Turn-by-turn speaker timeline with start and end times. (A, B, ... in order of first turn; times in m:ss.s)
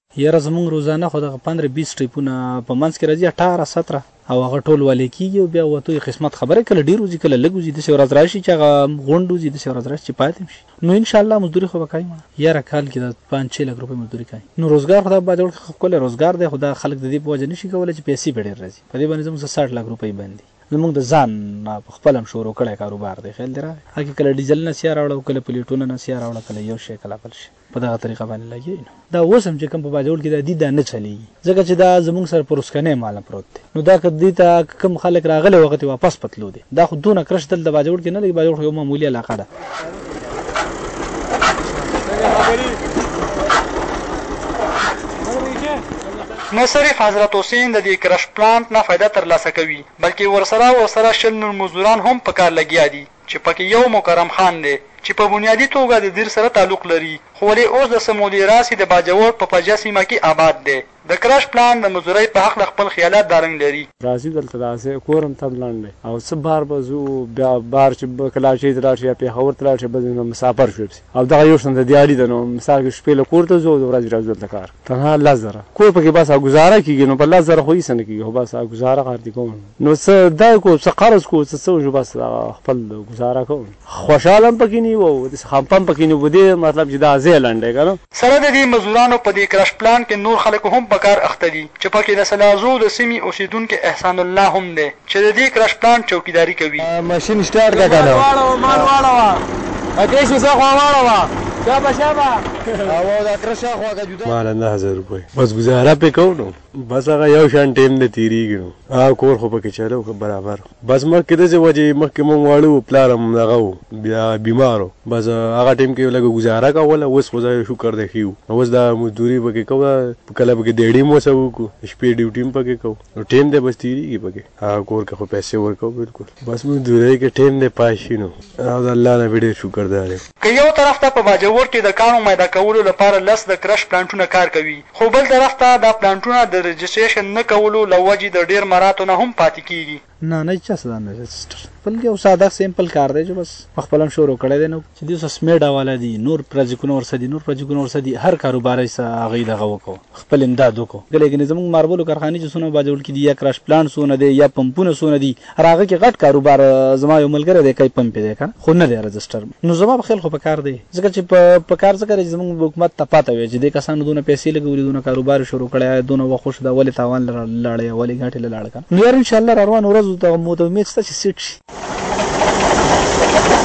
0:00.2-0:39.4 A
0:46.5-1:03.9 B
1:04.0-1:28.0 C
1:28.1-1:36.9 B
1:36.8-1:39.3 D
1:37.7-1:39.3 C
1:40.0-1:42.3 D
1:40.0-1:41.0 C
1:41.7-1:42.2 C
1:42.8-1:44.3 D
1:44.2-2:10.2 E
2:10.4-2:20.0 B
2:20.2-2:51.6 A